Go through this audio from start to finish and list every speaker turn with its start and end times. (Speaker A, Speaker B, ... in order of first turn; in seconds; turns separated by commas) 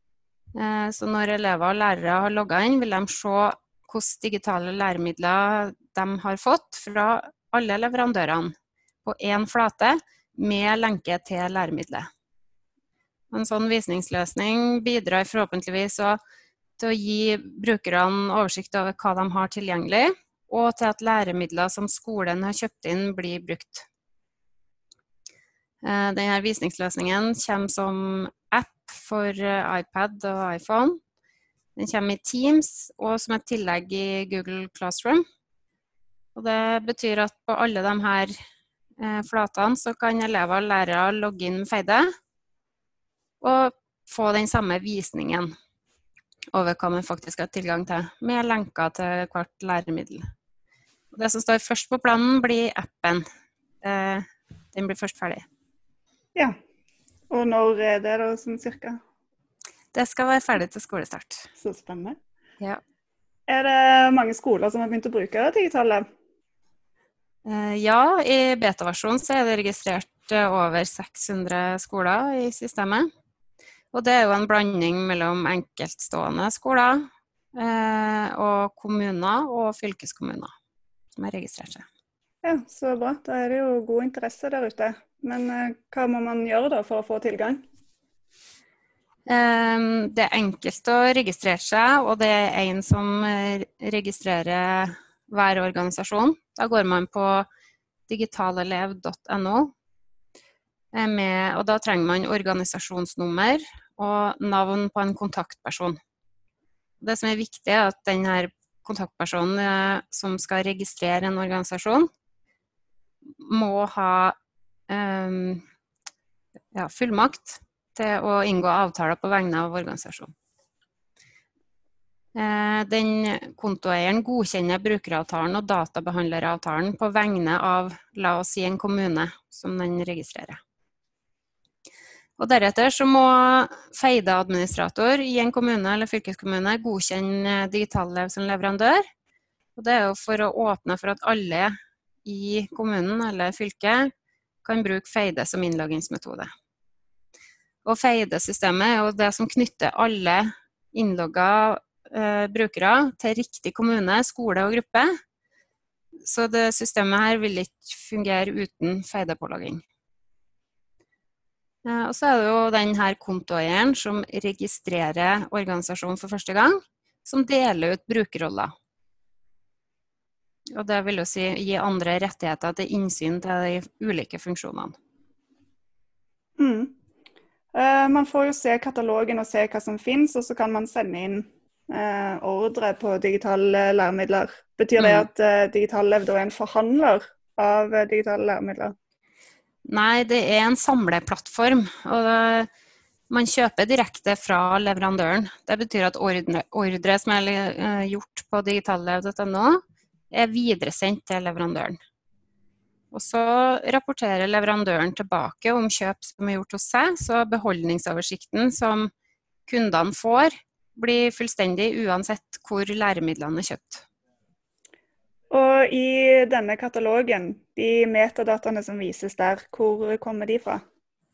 Speaker A: 0.6-8.5, Speaker A: 9.1-12.1, Speaker A: 13.3-16.2, Speaker A: 16.8-23.9, Speaker A: 25.8-31.0, Speaker A: 31.8-35.2, Speaker A: 36.4-38.3, Speaker A: 39.0-42.0, Speaker A: 43.4-45.5, Speaker A: 46.5-50.2, Speaker A: 51.1-53.2, Speaker A: 53.8-55.5, Speaker B: 57.3-59.0, Speaker A: 59.9-61.5, Speaker B: 61.6-62.2, Speaker B: 63.5-66.0, Speaker A: 67.5-73.1, Speaker A: 73.9-77.0, Speaker A: 77.5-80.5, Speaker A: 81.2-81.8, Speaker B: 82.4-87.6, Speaker A: 89.3-97.5, Speaker A: 98.1-99.7, Speaker A: 100.9-106.0, Speaker A: 107.0-112.1, Speaker A: 113.4-114.4, Speaker A: 114.9-115.6, Speaker A: 116.7-120.3, Speaker A: 122.3-130.6, Speaker A: 132.4-139.0, Speaker A: 139.8-141.7, Speaker A: 142.2-144.1, Speaker A: 144.7-146.5, Speaker A: 147.8-155.1, Speaker A: 156.2-159.8, Speaker A: 161.8-168.7, Speaker A: 170.7-175.0, Speaker B: 176.6-176.9, Speaker B: 177.7-188.9, Speaker A: 185.0-185.3, Speaker A: 189.9-192.7, Speaker A: 193.3-199.8, Speaker A: 200.3-202.0, Speaker A: 203.1-209.1, Speaker A: 209.7-214.0, Speaker B: 215.5-220.8